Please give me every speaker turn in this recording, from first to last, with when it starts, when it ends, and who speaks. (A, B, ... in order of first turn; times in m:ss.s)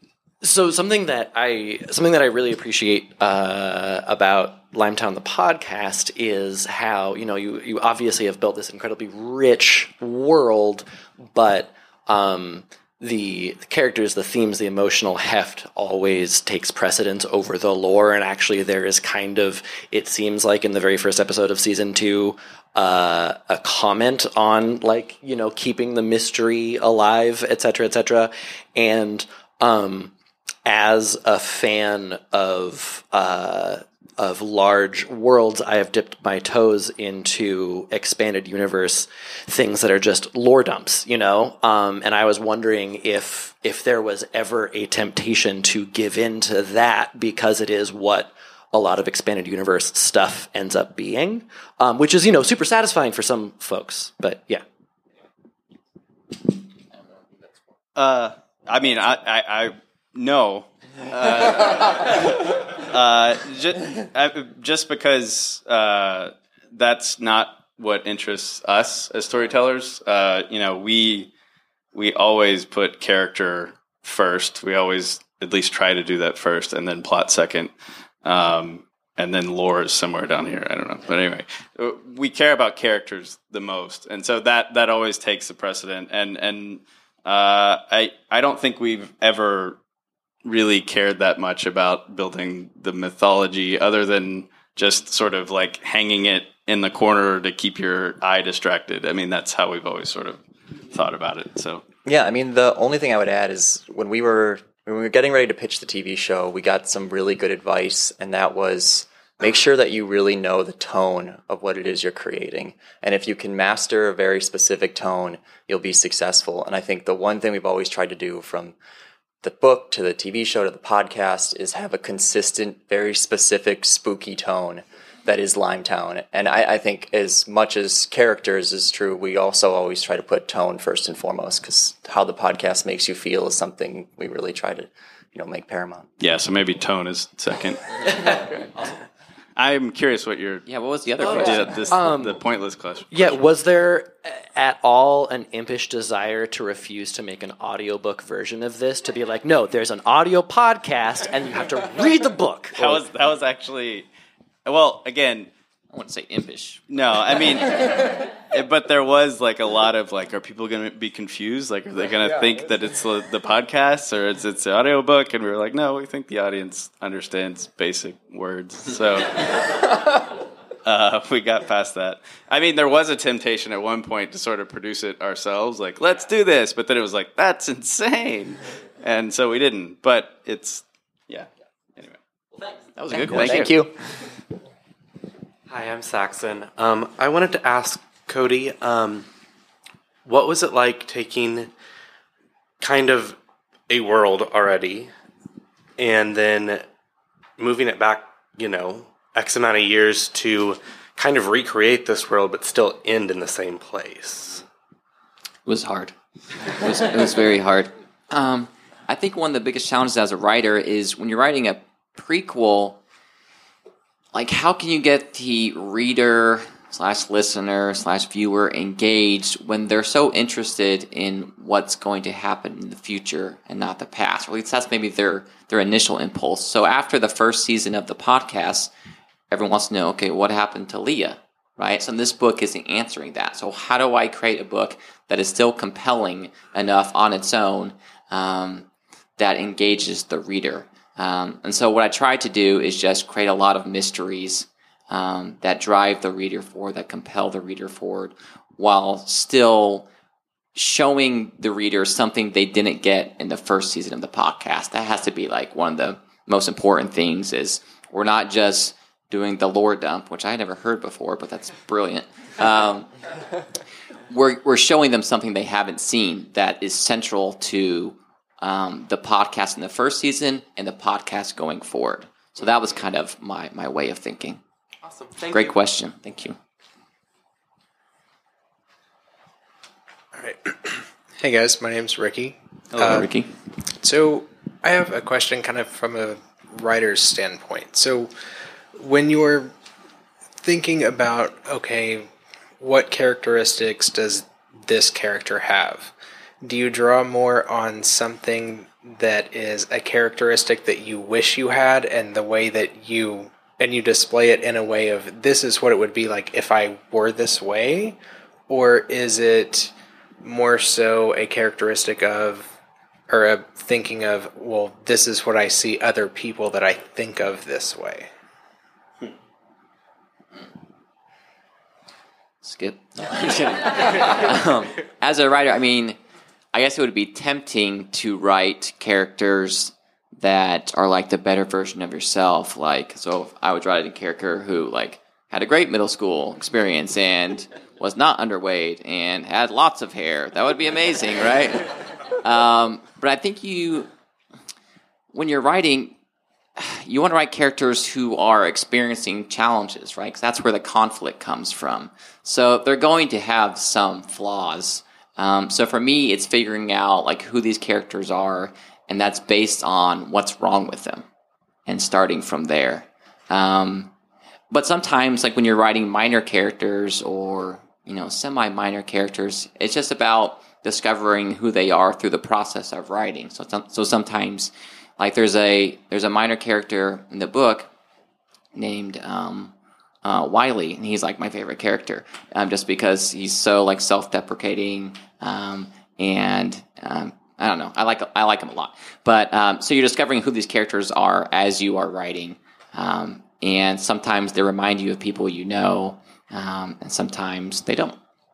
0:00.4-0:30.1 A
0:30.6-0:54.6 A
0:58.0-1:11.3 B
1:11.9-1:17.7 B
1:18.2-1:29.8 B
1:30.4-1:40.4 B
1:40.9-1:41.8 B
1:42.1-1:58.8 C
1:59.4-2:16.1 C
2:16.2-2:18.4 B
2:19.6-2:20.7 B
2:20.7-2:21.8 D
2:21.2-2:23.4 B
2:21.9-2:22.4 A
2:23.1-2:33.0 A
2:32.8-2:34.1 B
2:34.6-2:35.5 B
2:35.9-2:36.8 D
2:36.9-2:50.1 B
2:50.8-3:02.2 B
3:03.0-3:03.8 D
3:03.3-3:03.9 C
3:05.7-3:09.3 E
3:10.3-3:11.7 E
3:12.8-3:13.4 E
3:13.9-3:15.1 E
3:16.0-3:16.8 E
3:17.6-3:24.6 E
3:25.7-3:26.2 D
3:26.7-3:33.0 D
3:34.3-3:48.9 D
3:49.5-3:58.9 D
3:59.4-4:10.1 D
4:10.8-4:23.1 D
4:24.3-4:34.6 D
4:35.5-4:36.6 D
4:40.4-4:43.3 F
4:43.0-4:43.5 D
4:44.0-4:48.3 F
4:49.0-4:49.7 F
4:50.6-4:52.3 F
4:52.8-5:08.2 F
5:08.7-5:12.8 F
5:13.3-5:18.3 F
5:22.6-5:26.2 D
5:26.7-5:41.9 D
5:42.4-5:44.1 D
5:45.3-5:46.2 D
5:46.8-6:01.3 D
6:01.9-6:04.1 D
6:04.7-6:17.9 D
6:18.8-6:38.2 D